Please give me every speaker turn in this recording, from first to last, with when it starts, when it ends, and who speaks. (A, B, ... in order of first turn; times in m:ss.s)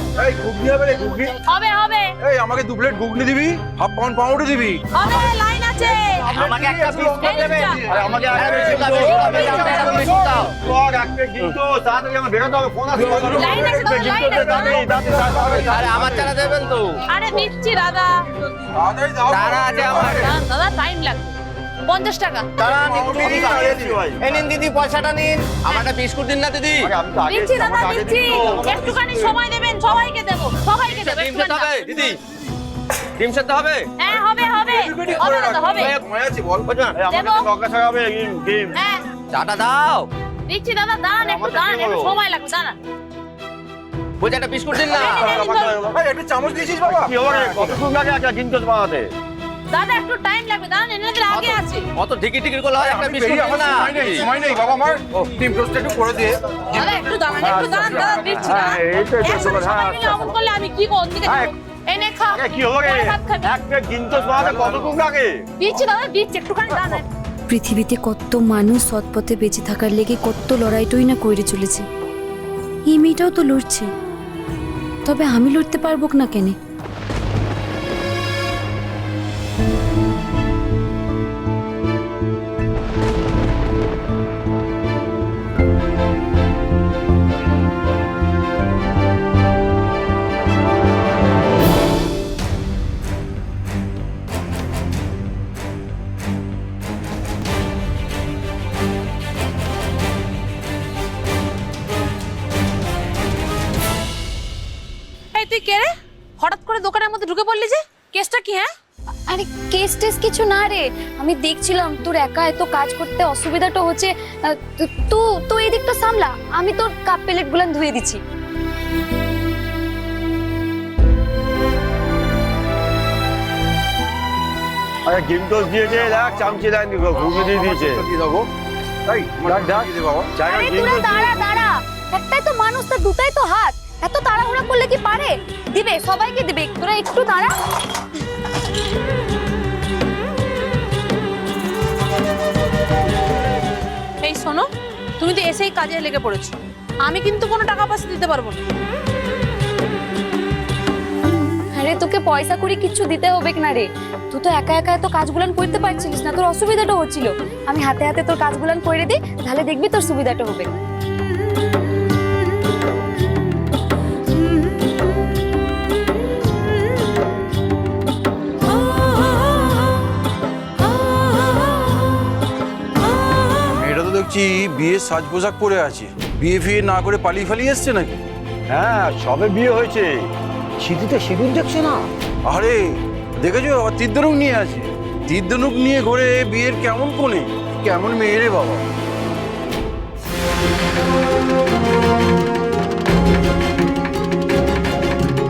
0:00.2-0:01.4 A
0:01.5-0:02.1 B
0:02.2-0:04.8 A
0:04.9-0:06.4 B
0:06.3-0:07.8 C
0:06.4-0:10.4 A
0:07.2-0:07.8 B
0:07.9-0:09.6 D
0:08.3-0:10.5 C
0:08.9-0:10.1 B
0:10.5-0:16.3 D
0:12.9-0:15.8 A
0:13.4-0:15.0 B
0:15.5-0:17.0 C
0:17.1-0:18.2 B
0:18.7-0:20.3 A
0:19.3-0:20.3 C
0:20.0-0:21.3 B
0:21.9-0:22.5 B
0:22.6-0:26.9 C
0:22.6-0:24.0 A
0:23.1-0:24.5 D
0:26.8-0:29.2 D
0:27.2-0:31.7 B
0:30.9-0:32.2 C
0:33.2-0:33.9 C
0:34.0-0:35.9 B
0:34.5-0:36.7 A
0:36.7-0:37.0 C
0:36.9-0:38.8 D
0:37.1-0:37.5 B
0:38.8-0:39.0 B
0:39.3-0:40.1 C
0:40.5-0:42.8 B
0:41.2-0:42.1 D
0:44.2-0:45.3 C
0:44.9-0:45.8 B
0:44.9-0:47.8 A
0:45.7-0:45.9 D
0:46.9-0:49.1 D
0:49.7-0:51.8 B
0:51.3-0:54.2 C
0:52.8-0:56.6 A
0:56.7-1:03.5 B
0:57.4-1:00.1 D
0:57.4-0:58.5 A
1:01.2-1:01.5 D
1:02.3-1:05.4 D
1:05.6-1:07.0 B
1:07.5-1:11.8 E
1:12.9-1:13.9 E
1:15.1-1:16.5 E
1:45.3-1:48.7 B
1:49.3-1:58.2 E
2:05.1-2:08.1 D
2:07.1-2:08.5 A
2:09.1-2:10.3 A
2:09.4-2:11.2 D
2:10.4-2:17.5 E
2:24.2-2:24.7 B
2:25.2-2:28.6 B
2:31.8-2:40.7 E
2:53.7-2:58.2 A
2:58.7-3:00.2 D
3:00.8-3:02.1 D
3:02.5-3:02.8 A
3:03.4-3:08.8 A